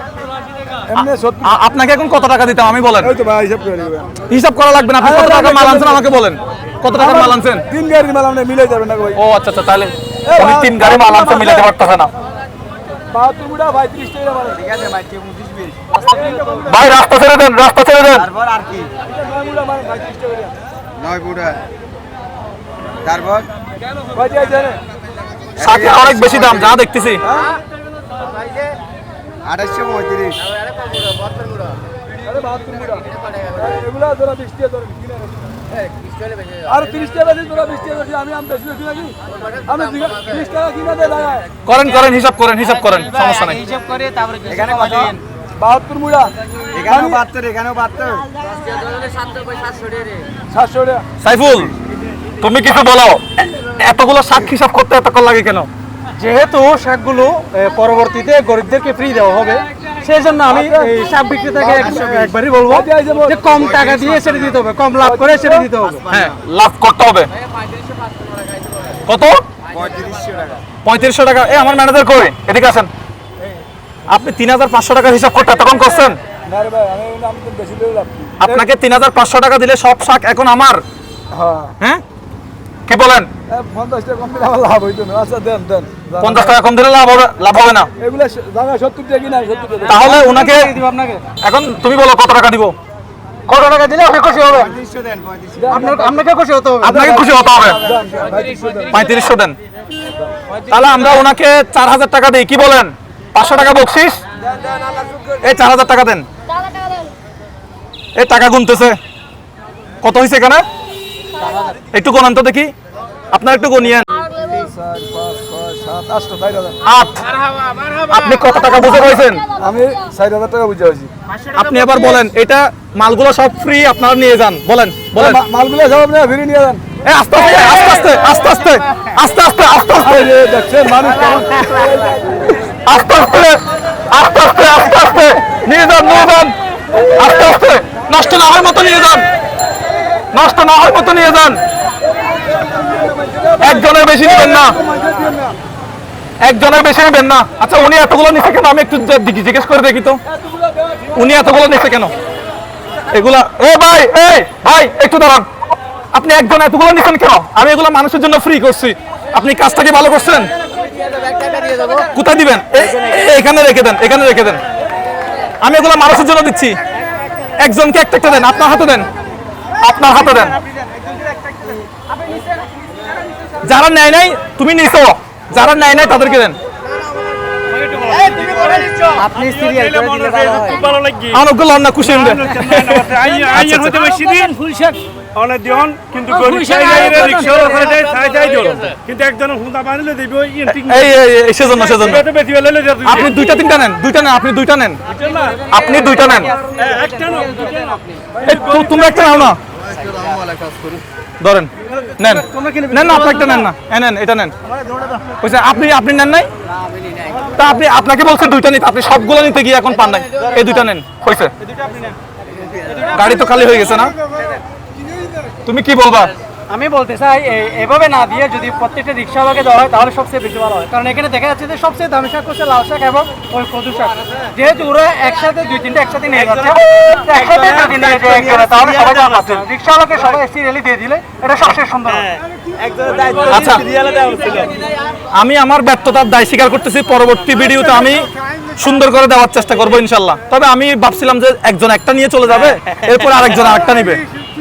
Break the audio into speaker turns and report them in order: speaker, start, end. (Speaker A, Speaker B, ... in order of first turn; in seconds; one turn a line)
Speaker A: 0.9-1.5
Speaker B: 1.4-3.1
Speaker A: 3.0-4.1
Speaker B: 4.3-7.7
Speaker A: 5.0-6.1
Speaker A: 6.9-9.2
Speaker B: 9.1-12.1
Speaker A: 10.2-11.7
Speaker A: 13.1-14.6
Speaker C: 14.6-15.8
Speaker A: 16.1-16.7
Speaker B: 16.6-18.3
Speaker C: 18.2-18.9
Speaker A: 19.1-20.5
Speaker C: 21.0-21.6
Speaker C: 23.0-23.5
Speaker A: 24.1-24.8
Speaker B: 25.6-27.2
Speaker C: 25.6-26.6
Speaker A: 27.2-27.5
Speaker C: 29.4-30.4
Speaker A: 32.2-35.4
Speaker A: 36.6-41.5
Speaker B: 41.6-43.6
Speaker D: 43.1-45.2
Speaker C: 44.5-45.1
Speaker A: 45.6-46.3
Speaker C: 46.7-48.3
Speaker A: 46.9-47.2
Speaker A: 50.5-51.0
Speaker B: 51.2-51.7
Speaker B: 52.4-55.7
Speaker D: 56.2-66.1
Speaker A: 60.5-60.9
Speaker C: 61.7-62.3
Speaker A: 62.6-63.5
Speaker C: 63.7-64.5
Speaker A: 65.0-65.7
Speaker C: 65.8-66.3
Speaker B: 66.1-67.3
Speaker B: 69.0-69.4
Speaker C: 69.7-70.6
Speaker B: 70.8-72.9
Speaker B: 74.1-76.2
Speaker A: 76.5-78.7
Speaker B: 78.4-80.8
Speaker A: 81.3-81.7
Speaker B: 82.9-83.3
Speaker A: 83.5-86.5
Speaker B: 86.2-87.9
Speaker A: 88.0-90.0
Speaker B: 89.9-90.7
Speaker D: 89.9-91.2
Speaker B: 91.4-92.7
Speaker D: 93.5-94.8
Speaker C: 94.6-95.7
Speaker A: 95.6-96.2
Speaker D: 95.7-97.2
Speaker B: 96.8-97.8
Speaker A: 97.8-99.0
Speaker B: 98.9-99.6
Speaker B: 100.7-104.2
Speaker B: 105.4-106.2
Speaker B: 108.2-109.0
Speaker B: 110.0-110.6
Speaker B: 111.9-112.7
Speaker B: 113.3-114.1
Speaker A: 114.2-116.8
Speaker B: 116.8-117.2
Speaker B: 118.0-119.4
Speaker A: 119.6-121.1
Speaker B: 121.5-125.4
Speaker A: 125.1-126.8
Speaker B: 127.0-130.3
Speaker A: 130.0-132.6
Speaker B: 132.8-136.5
Speaker B: 137.1-139.2
Speaker B: 140.3-141.6
Speaker A: 142.3-145.6
Speaker B: 143.6-144.8
Speaker B: 146.4-150.2
Speaker A: 150.3-151.1
Speaker B: 151.1-152.1
Speaker B: 153.1-155.4
Speaker B: 156.1-160.5
Speaker D: 161.4-162.0
Speaker B: 162.1-164.6
Speaker B: 165.6-166.8
Speaker B: 167.6-169.1
Speaker B: 169.8-170.6
Speaker B: 173.6-176.6
Speaker D: 178.0-181.0
Speaker E: 178.0-178.6
Speaker E: 180.3-181.3
Speaker B: 181.3-184.0
Speaker E: 182.6-184.5
Speaker D: 184.0-185.0
Speaker E: 185.3-191.0
Speaker D: 186.3-188.7
Speaker B: 190.6-192.3
Speaker E: 192.2-193.2
Speaker B: 193.0-195.0
Speaker B: 195.7-196.5
Speaker D: 196.0-198.1
Speaker E: 196.9-197.4
Speaker B: 198.4-199.6
Speaker B: 201.4-204.5
Speaker D: 202.2-203.7
Speaker B: 205.4-206.5
Speaker B: 207.5-211.5
Speaker B: 213.1-214.1
Speaker B: 215.7-216.3
Speaker D: 216.7-232.4
Speaker C: 227.4-229.5
Speaker C: 232.8-234.8
Speaker B: 233.5-233.8
Speaker B: 235.3-244.2